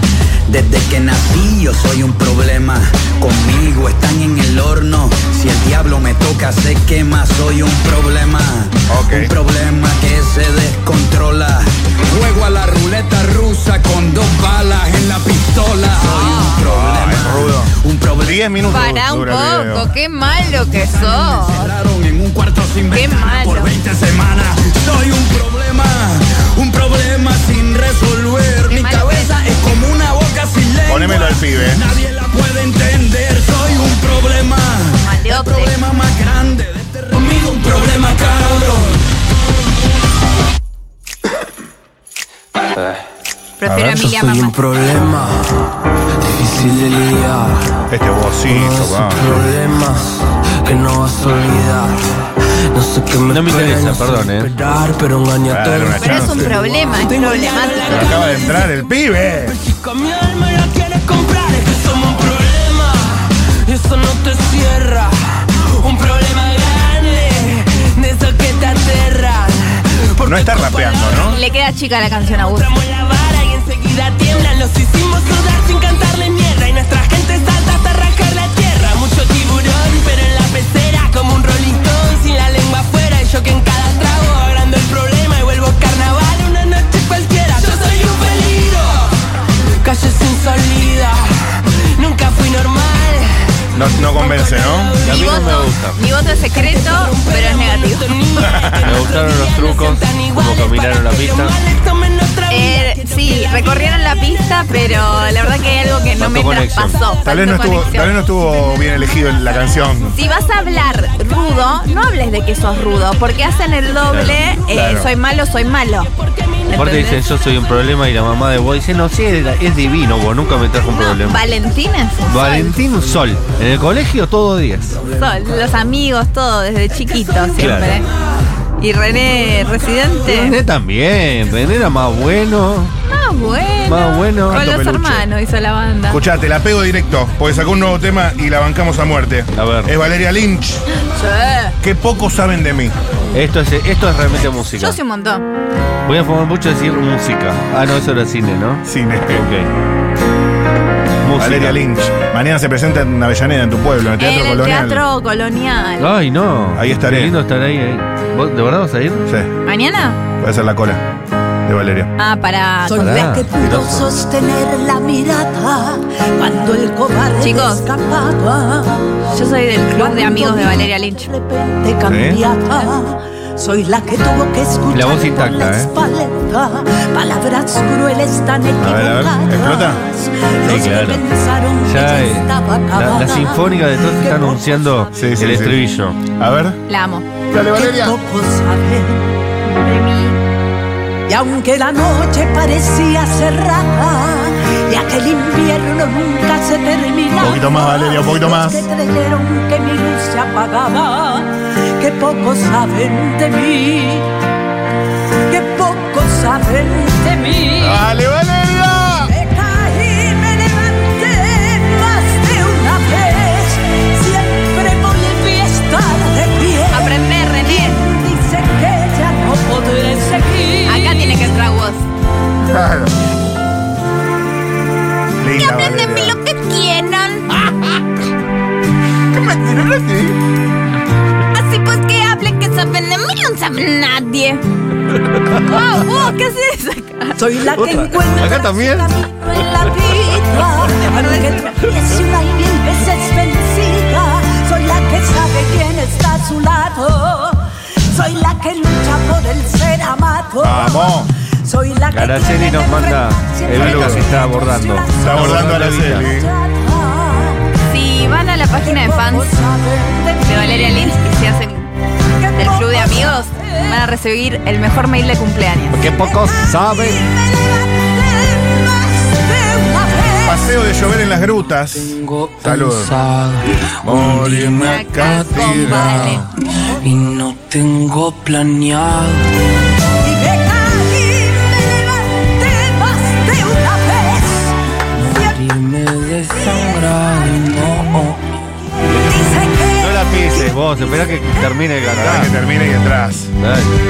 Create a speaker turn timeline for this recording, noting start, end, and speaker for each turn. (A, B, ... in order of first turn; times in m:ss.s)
0:00.5-0:18.4 A
0:08.9-0:09.3 B
0:16.0-0:16.6 C
0:16.6-0:19.9 B
0:18.6-0:21.7 C
0:20.6-0:39.0 A
0:22.9-0:23.7 C
0:28.7-0:29.5 C
0:30.9-0:31.8 B
0:35.0-0:35.7 C
0:43.6-0:44.5 C
0:43.6-0:45.6 D
0:46.2-0:47.7 D
0:47.9-0:49.5 B
0:48.4-0:52.1 D
0:52.7-0:58.8 D
0:53.3-0:54.5 E
0:55.4-0:56.5 B
0:56.0-0:58.3 C
0:57.9-0:59.6 B
0:59.5-1:11.4 D
1:10.2-1:11.4 B
1:11.3-1:12.7 C
1:12.3-1:29.1 D
1:29.8-1:33.3 D
1:33.7-1:34.9 B
1:34.0-1:35.2 D
1:35.0-1:36.0 E
1:35.0-1:38.7 C
1:36.4-1:46.0 D
1:38.4-1:38.8 B
1:38.8-1:41.6 E
1:42.5-1:48.3 C
1:46.2-1:47.0 E
1:46.9-1:49.9 D
1:47.2-1:50.2 B
1:50.1-1:56.1 C
1:54.1-1:54.4 E
1:54.7-1:55.1 B
1:56.0-1:56.8 D
1:56.7-1:57.2 C
1:56.7-2:01.4 E
2:00.9-2:02.8 C
2:02.3-2:05.0 E
2:05.1-2:08.0 C
2:07.6-2:08.0 E
2:08.8-2:10.6 C
2:10.2-2:12.9 E
2:13.0-2:16.2 C
2:13.8-2:14.6 E
2:14.5-2:15.3 B
2:16.1-2:20.8 B
2:19.5-2:19.9 E
2:21.0-2:21.8 C
2:21.8-2:23.0 B
2:23.3-2:25.0 E
2:24.6-2:25.4 C
2:26.0-2:29.7 E
2:28.8-2:29.4 B
2:31.2-2:31.8 E
2:31.4-2:35.0 B
2:34.2-2:36.1 C
2:36.0-2:39.3 E
2:36.7-2:37.3 B
2:39.3-2:39.5 B
2:39.6-2:40.2 C
2:40.4-2:41.0 B
2:41.6-2:42.1 B
2:42.2-2:43.3 C
2:42.8-2:49.2 F
2:43.0-2:44.0 E
2:47.4-2:47.8 C
2:49.3-2:51.3 C
2:49.9-3:05.0 F
2:52.0-2:52.4 B
2:54.9-2:55.9 E
2:58.8-3:00.0 B
3:00.6-3:01.2 E
3:01.8-3:06.2 E
3:05.1-3:05.8 B
3:06.4-3:06.8 B
3:06.9-3:07.3 C
3:07.5-3:08.1 B
3:07.7-3:09.3 F
3:09.7-3:10.4 C
3:11.3-3:24.3 F
3:17.4-3:18.8 B
3:25.5-3:28.0 F
3:27.8-3:29.3 B
3:29.3-3:41.1 F
3:36.9-3:38.0 C
3:40.8-3:42.0 C
3:42.6-3:43.2 B
3:45.4-3:46.4 B
3:45.6-3:47.5 C
3:49.3-3:50.4 B
3:51.5-3:54.6 C
3:55.6-3:57.4 C
3:57.4-4:17.6 F
3:57.7-3:59.1 E
4:01.2-4:01.7 C
4:10.6-4:11.3 B
4:12.1-4:16.3 E
4:13.7-4:14.3 B
4:15.2-4:16.5 B
4:17.9-4:19.5 C
4:18.8-4:21.3 F
4:20.4-4:21.9 C
4:22.4-4:24.0 F
4:22.5-4:26.0 C
4:25.9-4:27.3 E
4:26.0-4:30.7 F
4:30.4-4:33.1 B
4:32.0-4:36.4 D
4:34.0-4:36.5 B
4:34.6-4:36.5 C
4:37.0-4:39.5 D
4:40.2-4:44.7 F
4:45.2-4:48.4 D
4:45.3-4:45.6 F
4:49.1-4:51.6 F
4:50.0-4:52.5 E
4:52.1-4:53.5 B
4:53.6-4:54.0 E